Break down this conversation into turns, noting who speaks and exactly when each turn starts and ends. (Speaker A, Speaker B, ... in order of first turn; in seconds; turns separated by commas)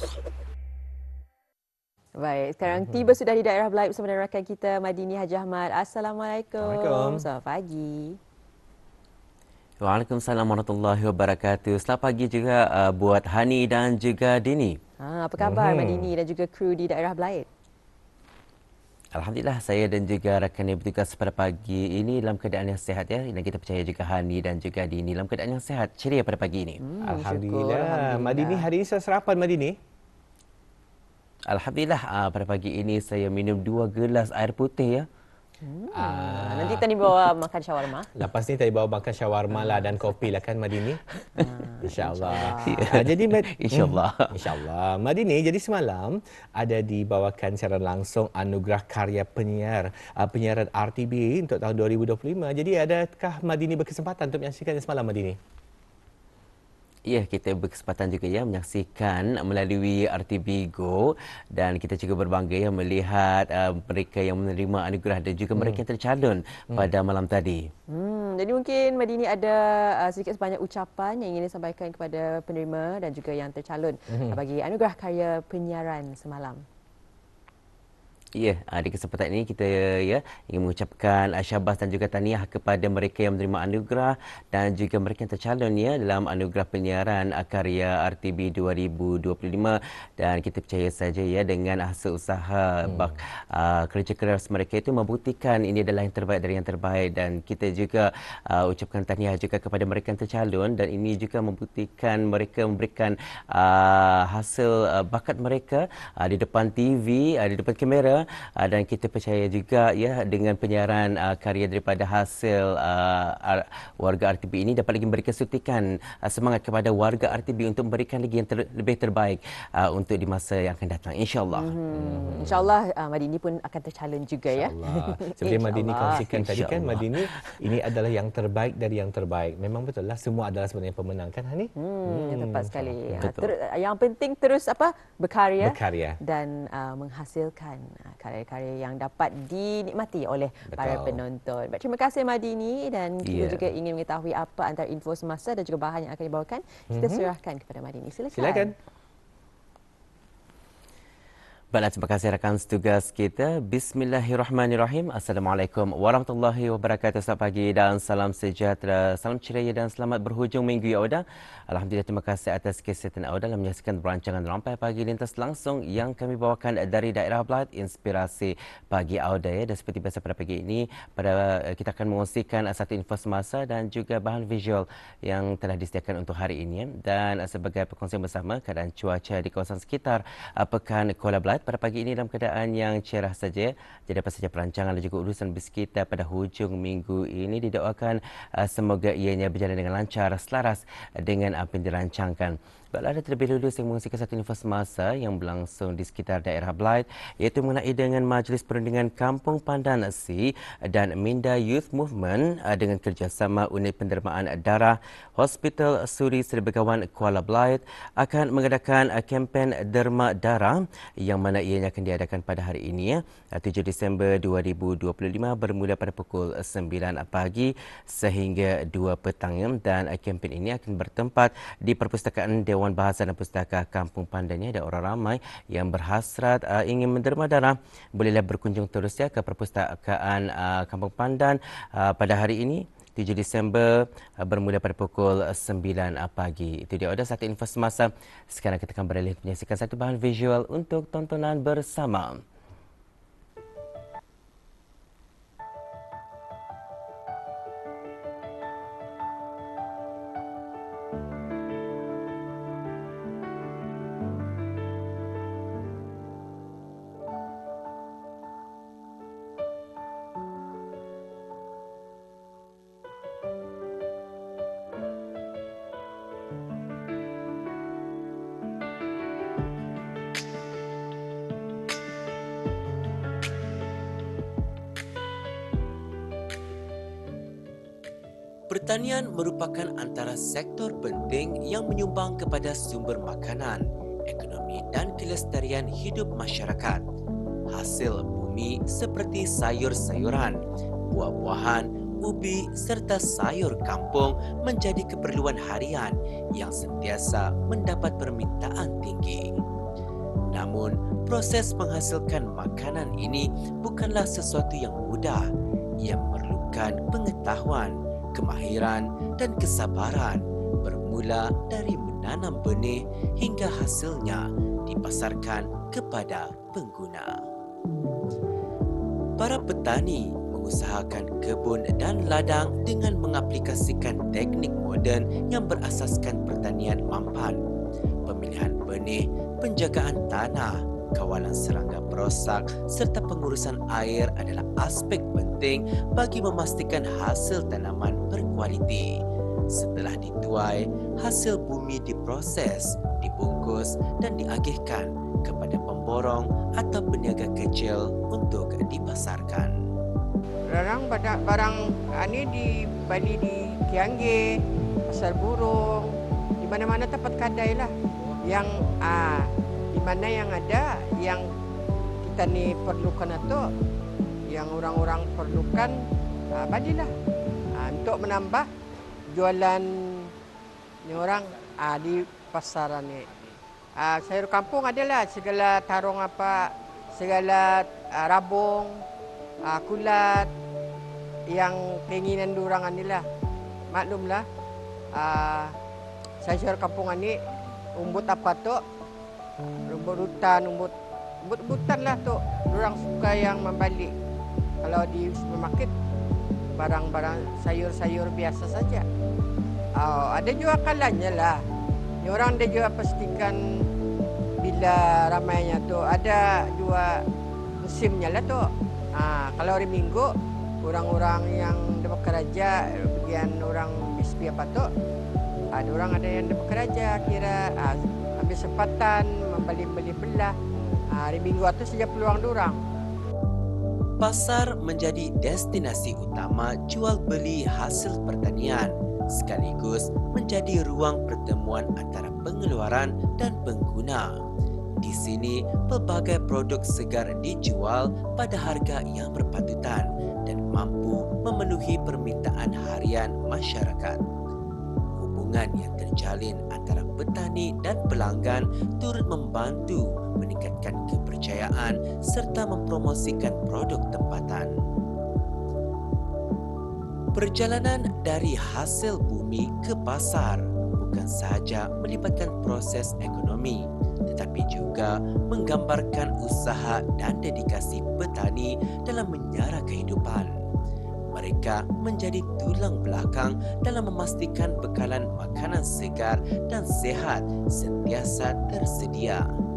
Speaker A: 2.1-8.2, Speaker B: 6.6-7.3, Speaker C: 9.8-14.8, Speaker A: 15.0-17.5, Speaker B: 15.4-16.1, Speaker C: 19.1-26.8, Speaker A: 26.8-28.7, Speaker B: 27.0-29.8, Speaker C: 31.5-35.1, Speaker A: 35.6-38.1, Speaker B: 35.9-36.9, Speaker B: 38.1-41.0, Speaker A: 39.5-40.3, Speaker A: 41.3-42.9, Speaker B: 41.8-55.4, Speaker C: 42.6-44.6, Speaker C: 57.1-67.7, Speaker B: 65.5-65.8, Speaker A: 67.9-76.6, Speaker C: 78.3-121.7, Speaker B: 92.8-93.1, Speaker A: 121.5-126.2, Speaker B: 121.9-122.7, Speaker B: 124.5-133.2, Speaker C: 126.2-127.5, Speaker A: 131.7-148.7, Speaker C: 133.1-133.5, Speaker B: 135.6-136.2, Speaker B: 140.7-141.2, Speaker C: 143.2-143.7, Speaker B: 146.9-147.3, Speaker B: 148.3-148.7, Speaker C: 151.7-242.4, Speaker D: 278.7-287.0, Speaker D: 287.7-299.5, Speaker D: 300.5-317.4, Speaker D: 319.4-327.6, Speaker D: 328.2-349.8, Speaker E: 350.7-354.4, Speaker E: 355.1-356.1, Speaker E: 356.6-357.9, Speaker E: 358.4-361.4, Speaker E: 362.2-363.6, Speaker E: 364.5-365.9, Speaker E: 366.5-367.1, Speaker E: 367.7-368.7, Speaker E: 369.3-370.3, Speaker E: 371.0-373.2, Speaker E: 373.9-378.9, Speaker E: 379.6-380.5, Speaker E: 381.5-383.2, Speaker E: 383.9-384.4, Speaker E: 385.1-385.7, Speaker E: 386.4-387.4, Speaker E: 388.0-388.8, Speaker E: 389.9-394.1, Speaker E: 394.8-395.9, Speaker E: 396.8-399.0, Speaker E: 400.0-401.6, Speaker E: 402.2-403.6, Speaker E: 404.6-407.2, Speaker E: 407.8-408.6, Speaker E: 409.1-410.3, Speaker E: 410.8-414.9, Speaker E: 415.7-420.5, Speaker E: 421.1-422.8, Speaker D: 424.2-434.4, Speaker D: 435.0-444.2, Speaker D: 445.1-454.7, Speaker D: 457.3-470.5, Speaker D: 471.3-479.4